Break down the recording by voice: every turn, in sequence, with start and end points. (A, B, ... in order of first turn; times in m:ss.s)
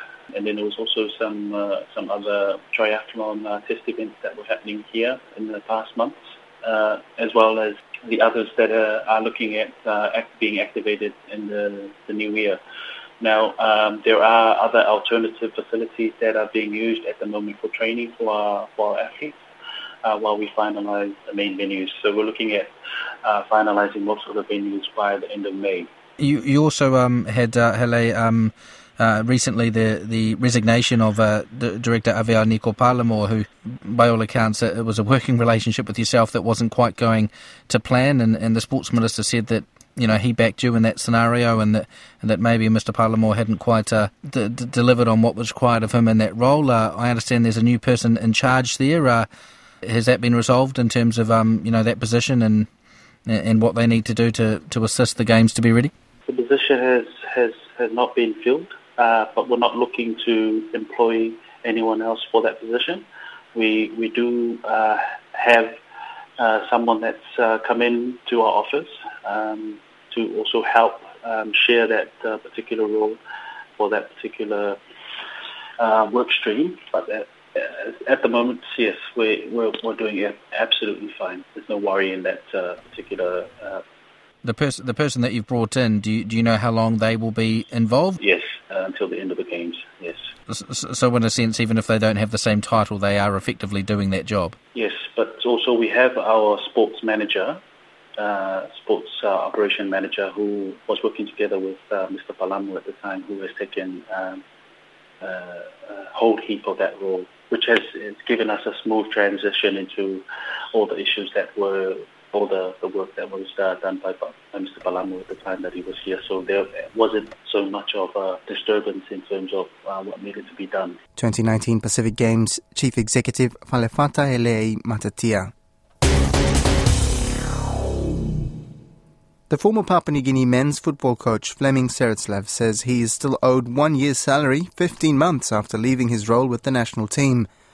0:00.3-0:12.6 A
0:13.2-0:19.4 A
0:20.0-0:22.7 A
0:23.2-0:25.9 A
0:26.2-0:49.3 B
0:49.8-0:52.7 B
0:53.3-0:55.9 B
0:56.3-1:05.8 A
1:06.4-1:13.2 A
1:13.8-1:14.8 A
1:15.8-1:23.8 A
1:24.4-1:28.2 B
1:28.2-1:30.3 A
1:30.5-1:34.6 B
1:34.7-1:37.6 A
1:38.2-1:44.4 A
1:45.2-2:01.0 A
2:01.2-2:05.5 C
2:09.5-2:17.5 C